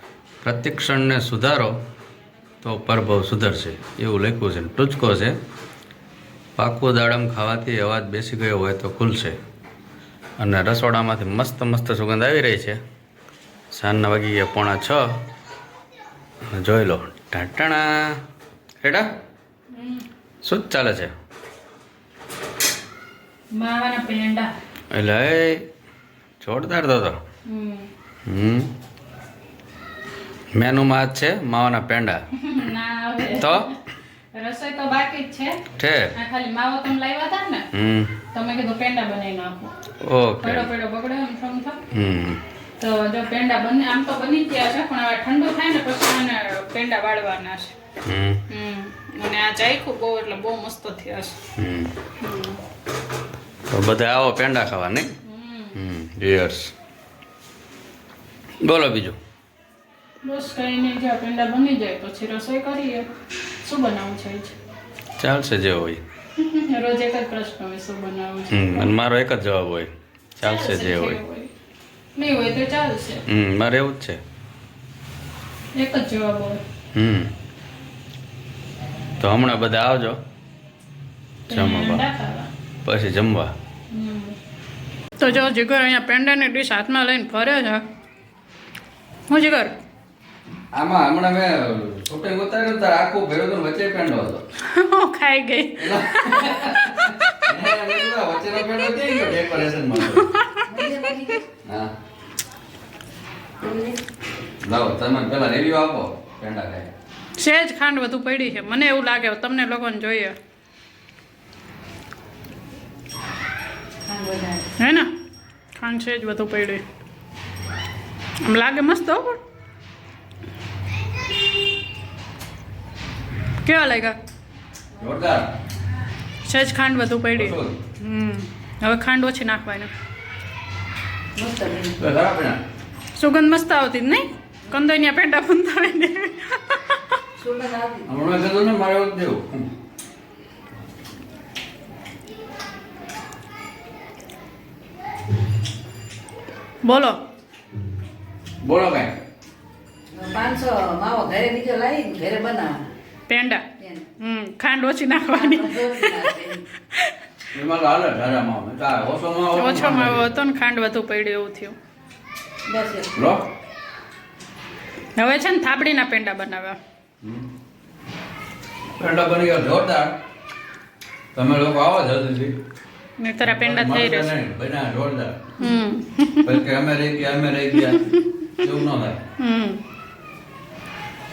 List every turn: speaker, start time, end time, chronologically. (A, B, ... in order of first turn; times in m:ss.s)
0:00.4-0:01.8 A
0:02.6-0:05.4 A
0:06.6-0:09.4 A
0:10.4-0:12.8 A
0:13.7-0:15.1 A
0:16.5-0:18.2 A
0:18.8-0:19.1 A
0:19.7-0:20.1 B
0:20.4-0:21.1 A
0:23.5-0:24.5 B
0:24.9-0:25.7 A
0:26.4-0:27.2 A
0:27.5-0:27.9 B
0:28.3-0:28.7 A
0:30.6-0:32.2 A
0:32.3-0:33.8 B
0:33.3-0:33.7 A
0:34.3-0:35.6 B
0:35.8-0:36.2 A
0:36.2-0:37.7 B
0:37.7-0:38.2 A
0:38.3-0:39.7 B
0:40.0-0:40.7 A
0:40.4-0:41.8 B
0:41.9-0:42.4 A
0:42.8-0:47.8 B
0:48.0-0:48.4 A
0:48.5-0:51.4 B
0:51.6-0:51.9 A
0:52.2-0:52.6 B
0:53.7-0:55.1 A
0:55.2-0:55.8 B
0:55.7-0:56.7 A
0:58.6-0:59.2 A
1:00.2-1:03.1 B
1:03.6-1:04.6 B
1:05.2-1:06.0 A
1:06.4-1:08.9 B
1:08.5-1:11.2 A
1:10.4-1:11.5 B
1:12.2-1:13.2 B
1:13.3-1:14.2 A
1:15.8-1:16.6 B
1:17.0-1:17.3 A
1:19.2-1:20.2 A
1:21.5-1:22.5 B
1:21.5-1:22.0 A
1:22.8-1:23.5 A
1:23.9-1:24.4 B
1:25.2-1:27.8 B
1:29.3-1:29.8 B
1:30.7-1:34.4 A
1:34.6-1:37.5 B
1:35.8-1:40.3 A
1:40.0-1:40.7 B
1:40.7-1:41.4 C
1:41.6-1:41.9 A
1:43.6-1:44.0 C
1:44.6-1:46.9 A
1:47.4-1:50.4 B
1:54.1-1:54.7 C
1:54.8-1:55.1 B
1:55.8-1:56.8 B
1:58.4-1:59.4 B
2:03.6-2:04.2 B
2:05.0-2:05.5 A
2:06.4-2:09.9 B
2:07.3-2:07.8 A
2:11.4-2:12.0 C
2:12.0-2:12.6 A
2:13.2-2:17.1 B
2:17.4-2:18.1 C
2:18.1-2:19.7 A
2:26.8-2:27.2 B
2:28.6-2:29.2 A
2:30.1-2:32.8 C
2:33.3-2:33.7 B
2:33.8-2:34.1 C
2:34.2-2:37.2 B
2:35.3-2:36.7 C
2:37.5-2:40.4 A
2:39.5-2:41.8 B
2:42.7-2:43.1 C
2:43.1-2:43.4 A
2:45.2-2:46.8 B
2:49.0-2:50.2 A
2:51.4-2:52.6 A
2:53.2-2:54.3 B
2:53.4-2:55.5 A
2:55.6-2:56.6 B
2:56.4-2:59.2 A
2:57.8-2:58.7 B
2:59.4-2:59.8 B